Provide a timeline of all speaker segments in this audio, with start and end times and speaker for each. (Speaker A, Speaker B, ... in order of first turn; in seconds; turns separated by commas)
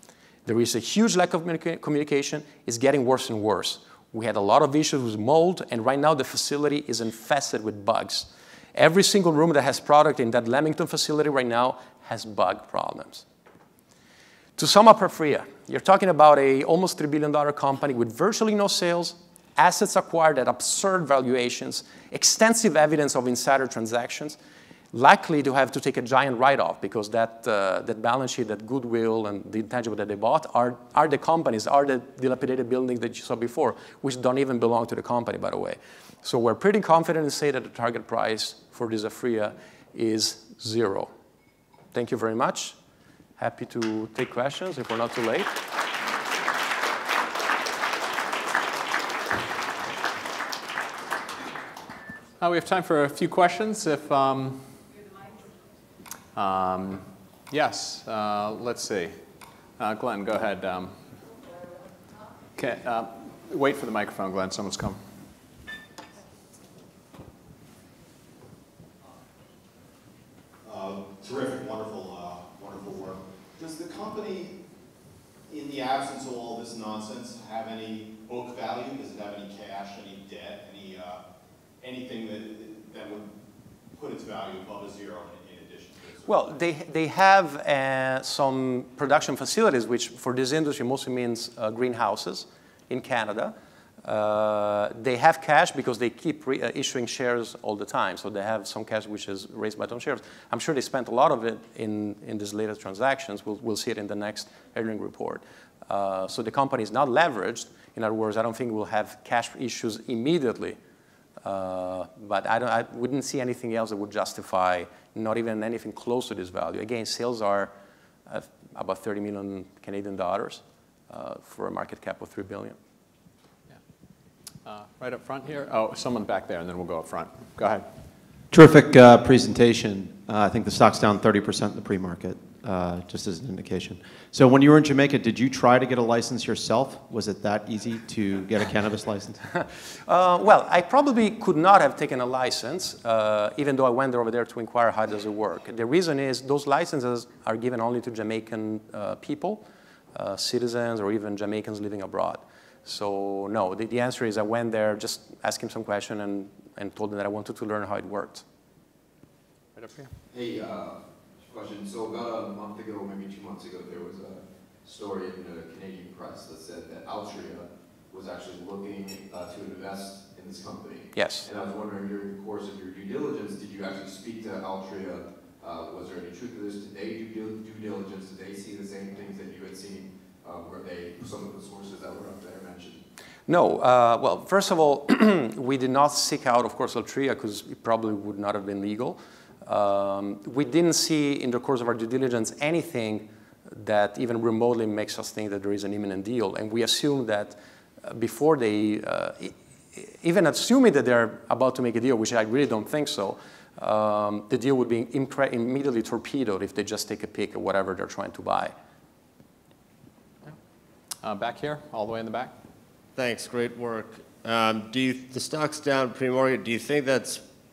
Speaker A: 0.5-13.2, Speaker A: 14.6-24.4, Speaker A: 24.9-41.1, Speaker A: 41.9-42.8, Speaker A: 43.4-45.6, Speaker B: 52.4-54.8, Speaker B: 56.3-59.2, Speaker B: 59.8-61.0, Speaker B: 62.6-65.0, Speaker C: 70.6-74.6, Speaker C: 75.5-81.2, Speaker C: 81.8-83.3, Speaker C: 83.9-86.4, Speaker A: 86.3-110.8, Speaker A: 111.4-117.7, Speaker A: 118.3-122.8, Speaker B: 124.7-127.8, Speaker D: 128.5-139.4, Speaker A: 140.1-158.4, Speaker E: 160.3-183.0, Speaker A: 171.1-171.5, Speaker A: 183.5-208.7, Speaker B: 211.2-212.5, Speaker F: 213.2-217.4